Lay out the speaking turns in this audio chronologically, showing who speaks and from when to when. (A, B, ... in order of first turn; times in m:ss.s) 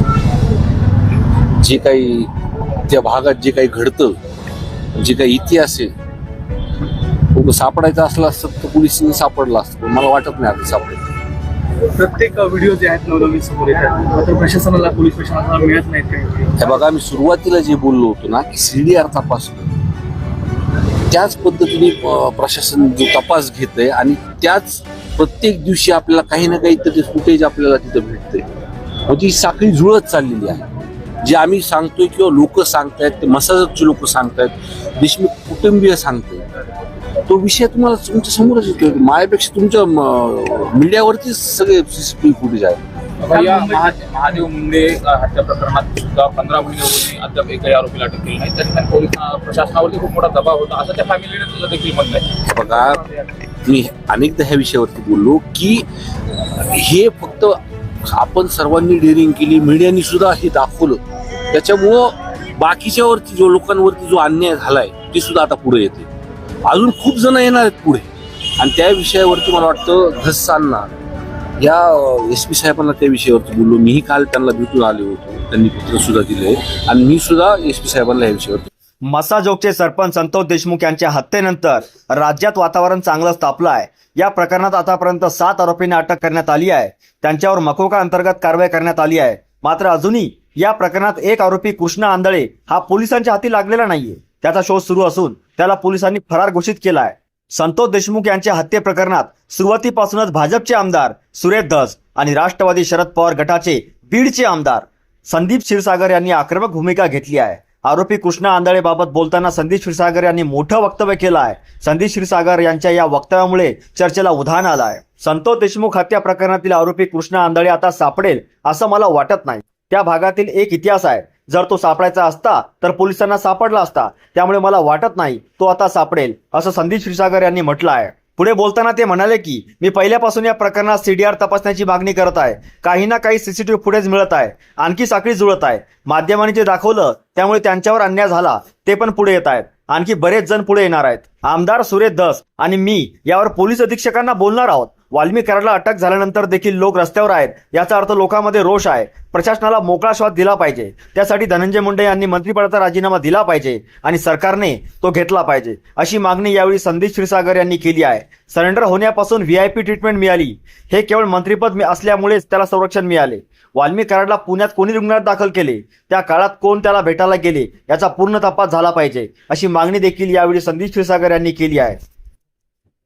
0:01.6-0:02.3 A
0:02.8-0:04.2 A
0:04.9-0:05.9 A
0:07.3-0:11.0 A
0:11.9-0:16.5 B
0:16.6-0:19.7 A
0:21.1-0:28.4 A
0:29.0-0:30.7 A
0:31.2-0:36.5 A
0:37.2-0:42.8 A
0:43.2-0:52.4 C
0:43.3-0:43.9 B
0:52.4-0:55.8 A
0:56.5-1:06.1 A
1:06.6-1:10.9 A
1:11.6-1:18.7 A
1:19.1-2:52.0 D